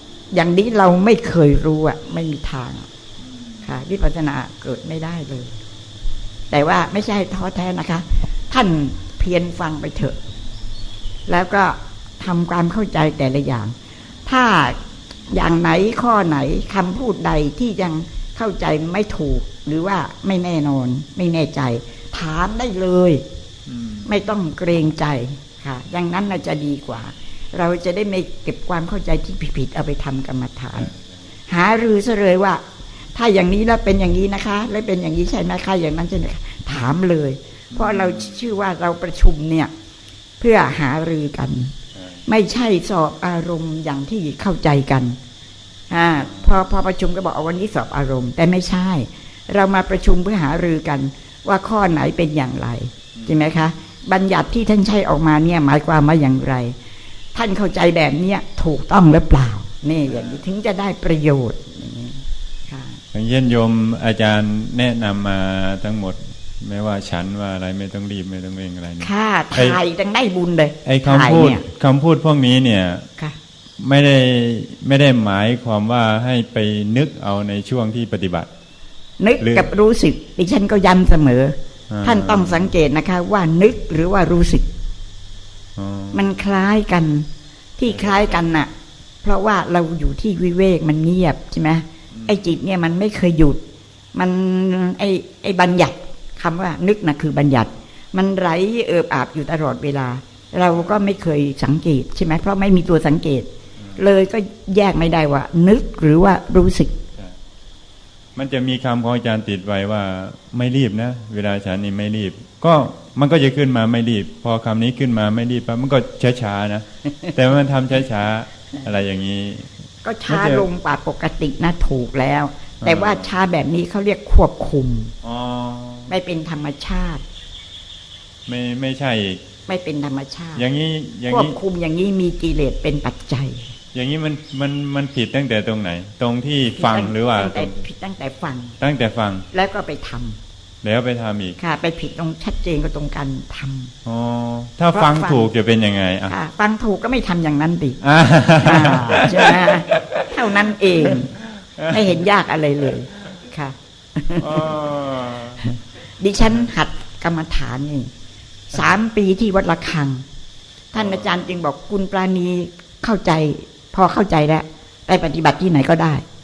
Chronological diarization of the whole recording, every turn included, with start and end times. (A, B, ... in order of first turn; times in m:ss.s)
0:00.3-0:02.9 A
0:03.2-0:03.8 B
0:03.6-0:05.5 A
0:06.5-0:10.2 A
0:11.3-0:13.8 A
0:14.3-0:14.8 A
0:15.3-0:23.2 A
0:23.7-0:24.3 B
0:24.1-0:30.9 A
0:30.8-0:31.3 B
0:31.5-0:32.6 A
0:33.2-0:39.7 A
0:37.7-0:38.4 B
0:40.4-0:41.7 A
0:41.9-0:42.2 B
0:42.3-0:45.2 A
0:45.9-0:56.8 A
0:46.2-0:46.6 B
0:53.2-0:53.8 B
0:57.3-1:03.0 A
1:00.1-1:00.4 B
1:03.1-1:09.8 B
1:09.0-1:11.6 A
1:10.8-1:13.1 B
1:13.8-1:18.5 B
1:19.2-1:24.7 A
1:19.4-1:19.7 B
1:21.9-1:22.7 B
1:25.8-1:26.5 B
1:26.1-1:28.7 A
1:27.9-1:28.6 B
1:29.2-1:33.6 A
1:32.1-1:32.5 B
1:34.1-1:47.0 A
1:40.7-1:41.0 B
1:43.8-1:44.1 B
1:48.4-1:59.7 B
2:00.0-2:05.1 A
2:00.3-2:00.7 B
2:02.8-2:03.4 B
2:05.2-2:06.1 B
2:06.1-2:07.2 A
2:08.5-2:09.4 B
2:09.7-2:10.6 A
2:10.6-2:11.6 B
2:11.3-2:13.7 A
2:13.9-2:17.8 B
2:16.8-2:18.8 A
2:18.8-2:19.5 B
2:19.5-2:20.4 A
2:20.8-2:21.6 B
2:21.6-2:23.9 A
2:24.0-2:26.4 B
2:24.9-2:25.5 A
2:26.3-2:28.0 A
2:28.0-2:32.2 B
2:28.6-2:31.3 A
2:31.9-2:34.7 A
2:34.4-2:35.7 B
2:36.2-2:38.1 A
2:38.7-2:40.2 A
2:40.9-2:46.2 A
2:40.9-2:41.5 B